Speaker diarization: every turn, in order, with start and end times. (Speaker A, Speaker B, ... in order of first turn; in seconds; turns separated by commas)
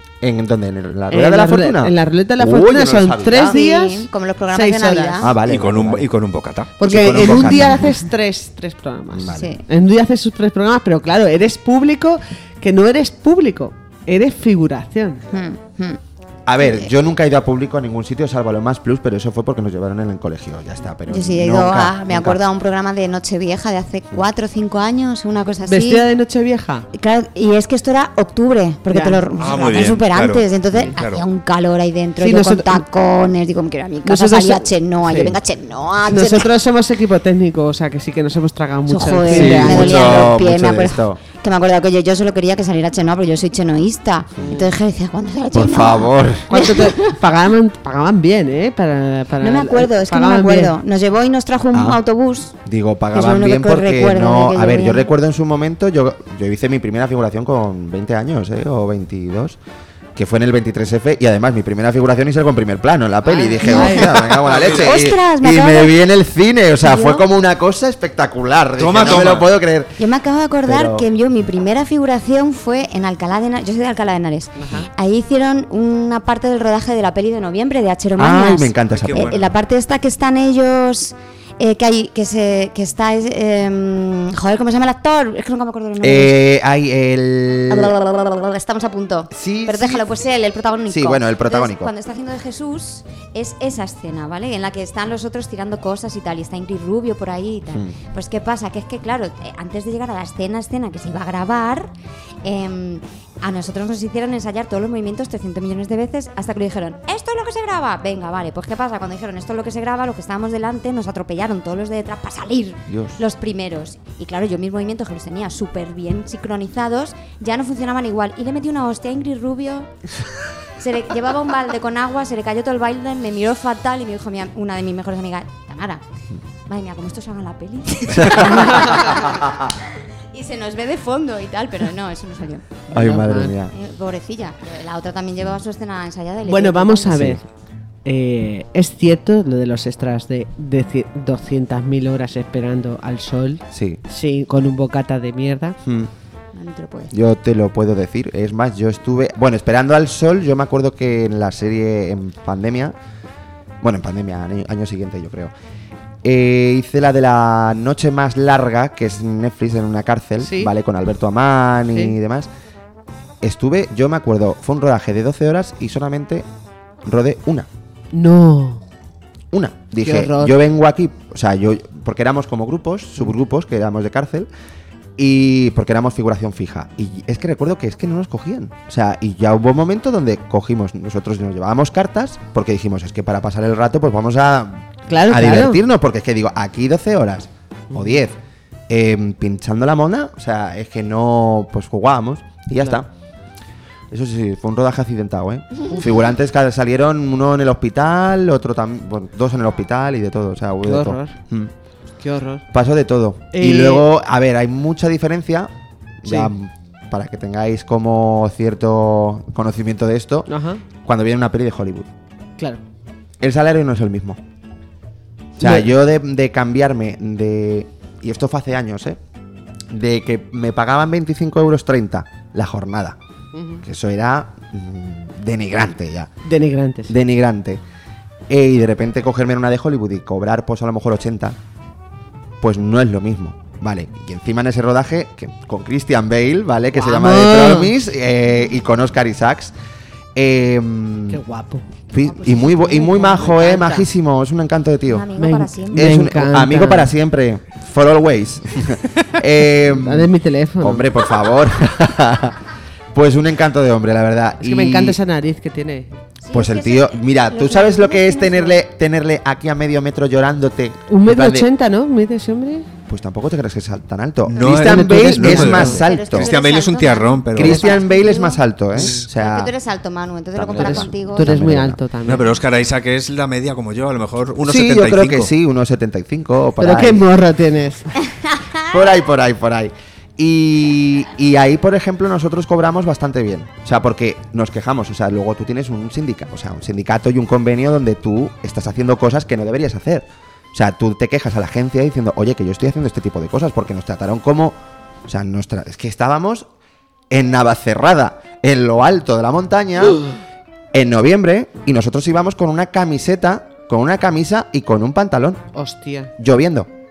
Speaker A: 0.2-3.5, Speaker B: 1.1-5.3, Speaker C: 3.5-5.3, Speaker A: 5.2-6.1, Speaker D: 5.5-6.7, Speaker B: 6.8-15.2, Speaker A: 6.8-7.9, Speaker A: 9.1-9.5, Speaker C: 9.3-9.6, Speaker C: 15.3-16.0, Speaker A: 16.4-22.4, Speaker C: 16.6-16.9, Speaker C: 21.1-26.0, Speaker B: 25.6-26.9, Speaker C: 26.9-36.5, Speaker B: 28.9-29.2, Speaker D: 29.4-31.2, Speaker B: 32.2-32.8, Speaker B: 34.0-35.4, Speaker B: 36.0-40.3, Speaker C: 38.9-47.1, Speaker A: 39.3-41.2, Speaker B: 44.4-44.7, Speaker A: 45.5-46.5, Speaker B: 46.5-50.7, Speaker C: 49.4-52.5, Speaker A: 51.7-52.0, Speaker A: 52.6-59.6, Speaker C: 53.1-55.1, Speaker A: 60.1-69.9, Speaker C: 63.3-64.1, Speaker B: 63.4-64.6, Speaker C: 64.7-65.9, Speaker C: 66.8-67.2, Speaker D: 68.8-69.5, Speaker C: 70.0-86.4, Speaker A: 70.6-71.0, Speaker B: 74.6-74.9, Speaker A: 78.2-79.4, Speaker D: 78.9-79.5, Speaker A: 86.0-87.9, Speaker C: 87.7-101.9, Speaker A: 89.3-90.1, Speaker A: 90.9-91.9, Speaker C: 102.4-119.9, Speaker A: 112.9-113.2, Speaker C: 120.8-126.0, Speaker C: 126.7-129.6, Speaker A: 128.2-129.0, Speaker C: 130.3-132.8, Speaker A: 132.9-133.7, Speaker B: 132.9-133.5, Speaker C: 133.7-137.3, Speaker B: 136.4-137.4, Speaker A: 137.1-137.4, Speaker B: 138.0-145.8, Speaker A: 143.7-144.0, Speaker A: 145.8-146.1, Speaker C: 146.5-147.1, Speaker A: 147.1-152.9, Speaker A: 153.8-155.5, Speaker A: 156.2-162.5, Speaker B: 160.4-160.7, Speaker A: 163.4-166.4, Speaker A: 167.0-167.7, Speaker B: 168.1-168.8, Speaker A: 169.5-174.5, Speaker B: 170.0-170.6, Speaker A: 175.2-193.1, Speaker B: 185.1-185.8, Speaker A: 194.1-201.7, Speaker B: 200.8-201.4, Speaker B: 202.2-202.6, Speaker A: 202.7-205.7, Speaker B: 203.5-204.1, Speaker A: 206.2-210.5, Speaker B: 206.2-206.5, Speaker B: 210.5-210.8, Speaker A: 211.0-212.1, Speaker A: 213.4-214.4, Speaker A: 215.6-219.2, Speaker B: 215.6-215.9, Speaker A: 219.9-223.2, Speaker B: 223.5-223.8, Speaker A: 223.8-226.3, Speaker B: 226.4-227.1, Speaker A: 227.1-227.8, Speaker A: 228.5-231.6, Speaker A: 232.6-239.7, Speaker B: 236.9-237.9, Speaker A: 240.3-241.4, Speaker B: 241.3-241.8, Speaker A: 242.1-245.3, Speaker C: 242.1-243.8, Speaker B: 243.0-244.0, Speaker C: 245.1-246.1, Speaker B: 245.3-247.1, Speaker A: 245.9-252.6, Speaker B: 249.9-251.1, Speaker A: 253.1-255.2, Speaker B: 254.6-256.1, Speaker C: 256.4-258.8, Speaker A: 256.5-261.7, Speaker B: 261.1-262.9, Speaker A: 263.1-266.5, Speaker D: 264.5-267.9, Speaker B: 264.7-266.0, Speaker C: 266.0-268.6, Speaker A: 267.5-269.7, Speaker C: 269.3-271.5, Speaker A: 270.5-272.0, Speaker B: 270.8-272.6, Speaker D: 272.2-275.5, Speaker A: 274.6-277.2, Speaker B: 276.8-278.1, Speaker C: 278.5-278.8, Speaker A: 278.9-296.7, Speaker A: 297.3-300.2, Speaker A: 300.9-305.6, Speaker B: 305.7-306.3, Speaker A: 306.4-306.9